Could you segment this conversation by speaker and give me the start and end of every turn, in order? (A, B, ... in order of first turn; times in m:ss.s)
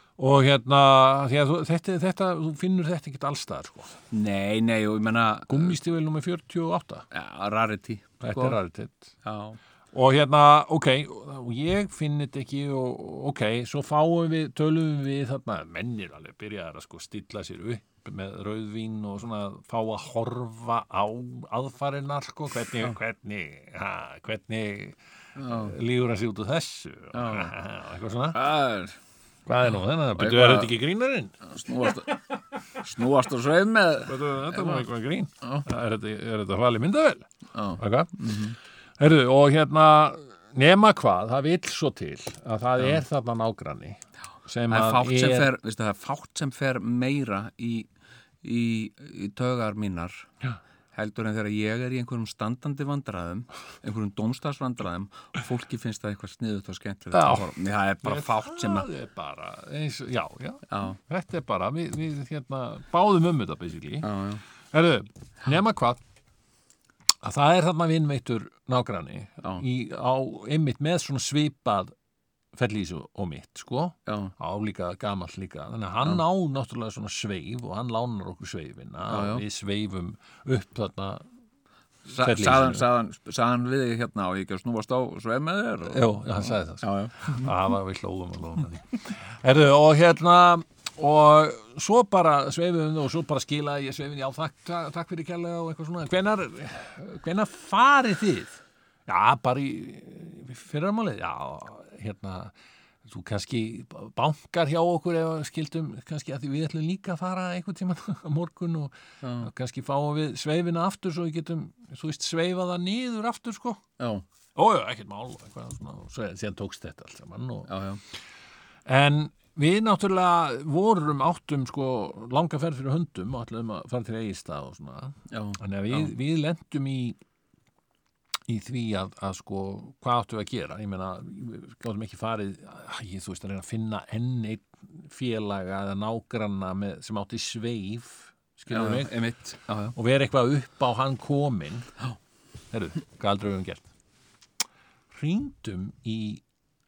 0:00.2-0:04.0 A
0:04.1-0:05.8 B
0:05.5-0:07.1 A
0:07.1-0:08.6 B
0:08.2-0:09.1 A
0:09.2-0:09.6 B
0:09.9-0:28.4 A
0:25.4-0:25.8 B
0:27.1-0:27.6 B
0:28.3-0:29.0 B
0:29.5-0:31.4 A
0:30.1-0:30.8 B
0:31.4-0:34.9 B
0:34.0-0:38.3 A
0:37.5-0:38.6 B
0:39.0-0:45.5 A
0:42.8-0:43.0 B
0:44.7-0:47.9 B
0:48.4-0:50.3 B
0:50.9-0:58.9 B
0:57.1-0:57.5 A
0:58.0-1:04.1 A
1:00.7-1:01.0 B
1:04.0-1:04.4 B
1:04.7-1:06.0 A
1:07.2-1:11.9 A
1:12.5-1:21.2 A
1:14.1-1:14.3 B
1:19.1-1:19.4 B
1:22.1-1:27.5 B
1:22.2-1:22.9 A
1:25.8-1:42.5 A
1:43.0-1:53.8 A
1:49.2-1:49.5 B
1:54.0-1:54.2 B
1:54.6-1:57.7 A
1:57.7-1:58.0 B
1:58.9-2:07.2 A
2:05.3-2:06.1 B
2:08.5-2:19.2 A
2:18.7-2:20.0 B
2:20.0-2:21.9 A
2:22.7-2:23.9 A
2:25.1-2:26.4 A